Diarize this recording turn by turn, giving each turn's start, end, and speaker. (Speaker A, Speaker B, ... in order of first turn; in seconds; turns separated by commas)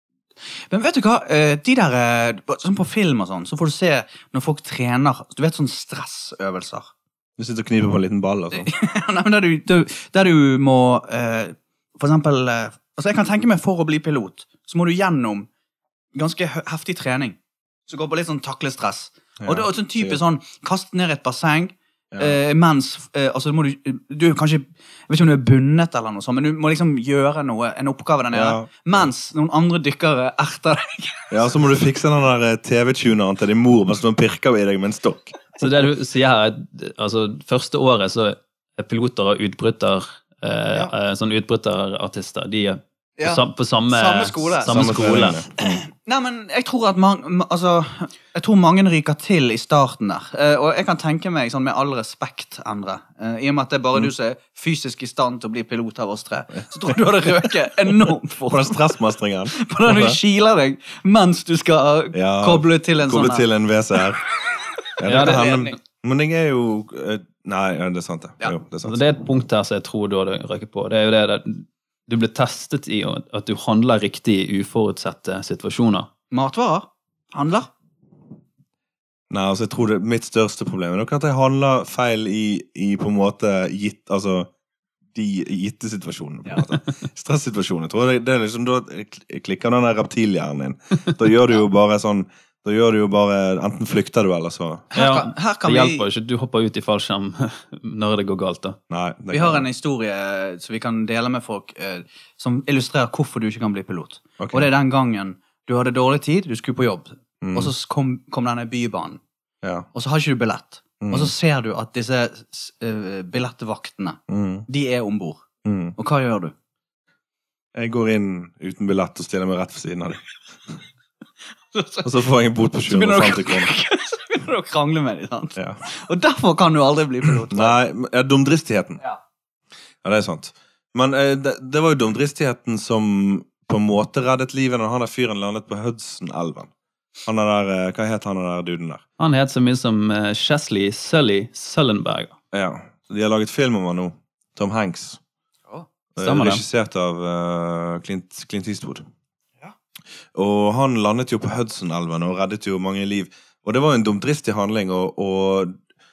Speaker A: 0.7-6.9, Speaker B: 7.4-8.7, Speaker A: 8.5-15.5, Speaker A: 16.1-17.4, Speaker A: 17.9-31.5, Speaker B: 19.4-20.2, Speaker B: 22.1-22.4, Speaker B: 28.3-29.0, Speaker B: 31.3-35.3, Speaker C: 35.6-45.4, Speaker A: 43.2-59.0, Speaker B: 44.7-45.8, Speaker B: 56.8-60.2, Speaker A: 59.5-63.5, Speaker B: 62.1-64.2, Speaker B: 65.0-69.0, Speaker A: 65.0-65.7, Speaker C: 65.0-65.7, Speaker C: 68.8-76.1, Speaker A: 76.3-77.7, Speaker B: 79.3-84.5, Speaker B: 85.1-94.9, Speaker A: 94.9-96.0, Speaker C: 94.9-98.8, Speaker B: 98.9-99.7, Speaker A: 99.3-109.2, Speaker B: 104.4-104.7, Speaker B: 107.4-107.7, Speaker B: 109.6-109.9, Speaker A: 109.9-115.4, Speaker B: 111.0-111.3, Speaker B: 114.3-114.7, Speaker B: 115.6-115.9, Speaker A: 116.0-116.5, Speaker B: 117.7-120.8, Speaker A: 121.7-122.1, Speaker B: 122.0-123.7, Speaker A: 122.8-127.8, Speaker B: 125.5-125.8, Speaker B: 127.5-129.0, Speaker B: 130.0-136.7, Speaker B: 137.2-139.0, Speaker C: 139.2-142.3, Speaker B: 142.5-145.2, Speaker B: 146.2-149.0, Speaker C: 146.2-146.6, Speaker B: 150.3-155.7